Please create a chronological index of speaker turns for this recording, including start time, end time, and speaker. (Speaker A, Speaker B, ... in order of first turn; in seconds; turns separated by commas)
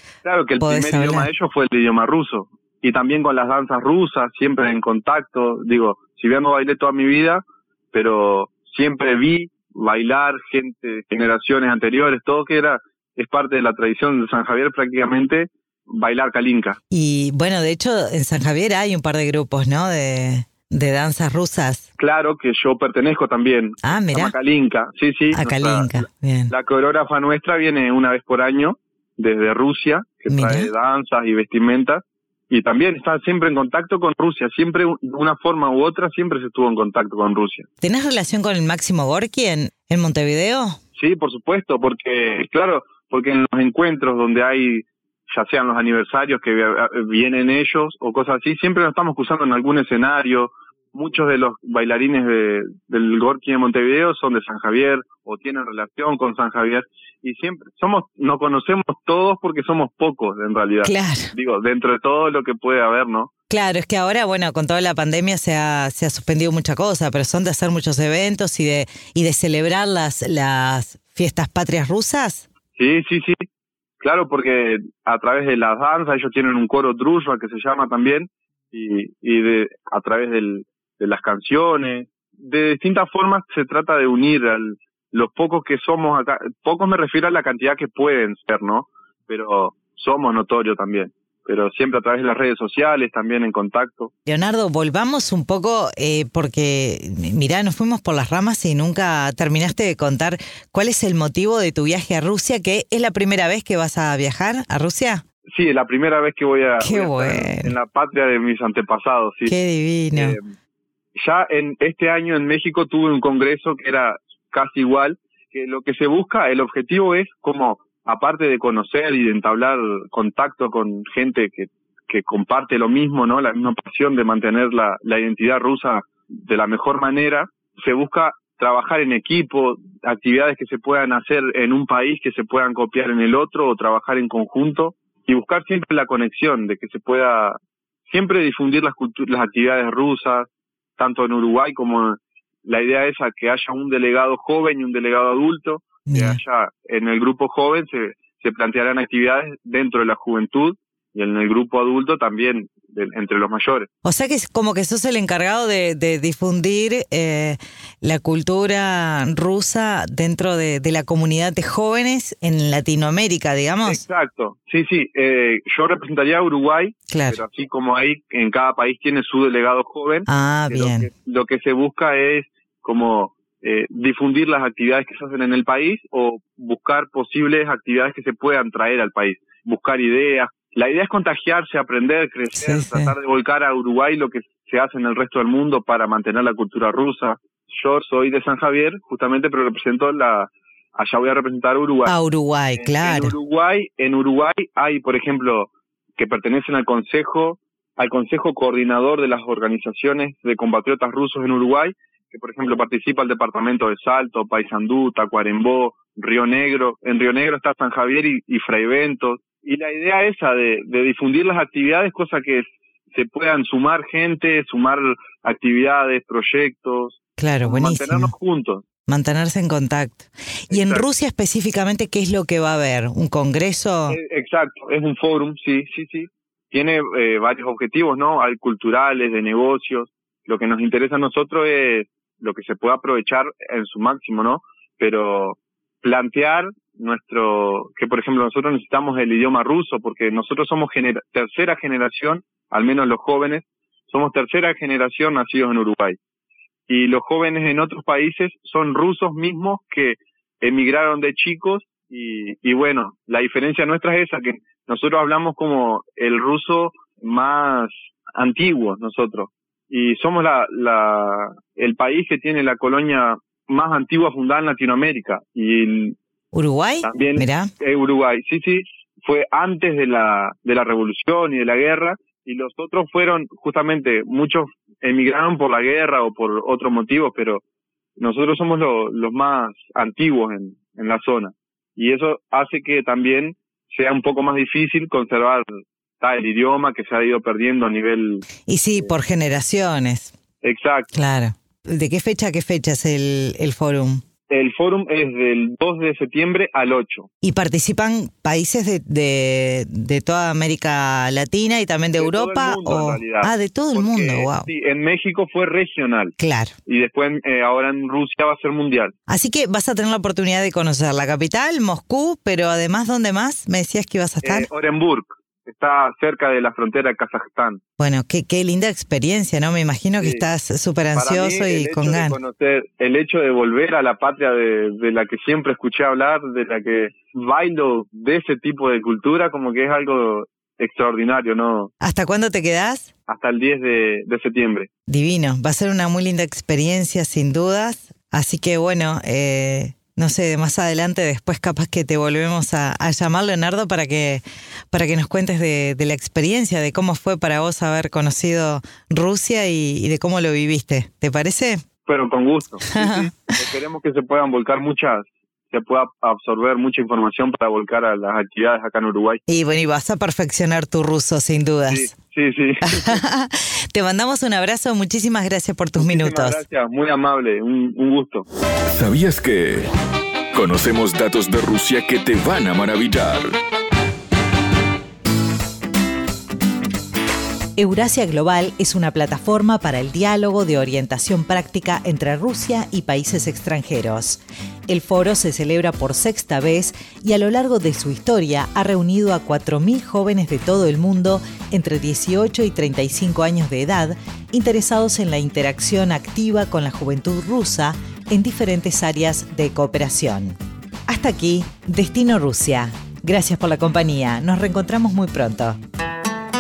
Speaker A: 0.2-16.8, Speaker B: 0.6-1.3, Speaker B: 16.9-21.9, Speaker A: 22.0-25.9, Speaker B: 23.8-24.3, Speaker B: 25.3-26.5, Speaker A: 26.5-37.7, Speaker B: 30.3-30.7, Speaker B: 37.8-40.8, Speaker A: 41.0-63.3, Speaker B: 60.8-61.3, Speaker B: 63.5-72.5, Speaker A: 72.8-73.4, Speaker A: 74.0-94.1, Speaker B: 94.3-105.2, Speaker A: 105.5-109.6, Speaker B: 106.8-107.8, Speaker B: 109.5-110.4, Speaker A: 110.1-110.5, Speaker A: 111.2-153.9, Speaker B: 146.1-146.4, Speaker B: 154.1-164.0, Speaker A: 163.8-192.1, Speaker B: 167.1-167.4, Speaker B: 170.3-171.1, Speaker B: 182.5-183.2, Speaker B: 192.1-193.4, Speaker A: 192.8-218.8, Speaker B: 217.4-218.3, Speaker B: 219.1-224.2, Speaker A: 220.7-221.1, Speaker A: 224.1-246.2, Speaker A: 246.9-266.2, Speaker B: 266.5-267.7, Speaker A: 267.0-277.6, Speaker A: 278.2-285.7, Speaker A: 286.2-289.1, Speaker B: 288.7-290.3, Speaker A: 290.6-291.1, Speaker B: 291.1-294.2, Speaker A: 294.5-297.3, Speaker B: 297.4-304.7, Speaker A: 302.2-306.4, Speaker B: 306.4-306.7, Speaker A: 306.9-309.1, Speaker B: 309.3-314.7, Speaker A: 314.4-317.8, Speaker B: 318.0-322.4, Speaker A: 320.2-320.5, Speaker A: 321.1-331.9, Speaker B: 332.0-333.1, Speaker A: 333.3-334.9, Speaker B: 335.1-351.8, Speaker A: 352.1-359.4, Speaker B: 352.9-353.4, Speaker B: 359.5-362.1, Speaker A: 361.9-363.2, Speaker B: 362.8-366.6, Speaker A: 366.0-368.5, Speaker C: 368.9-369.9, Speaker C: 370.5-373.5, Speaker B: 377.8-405.8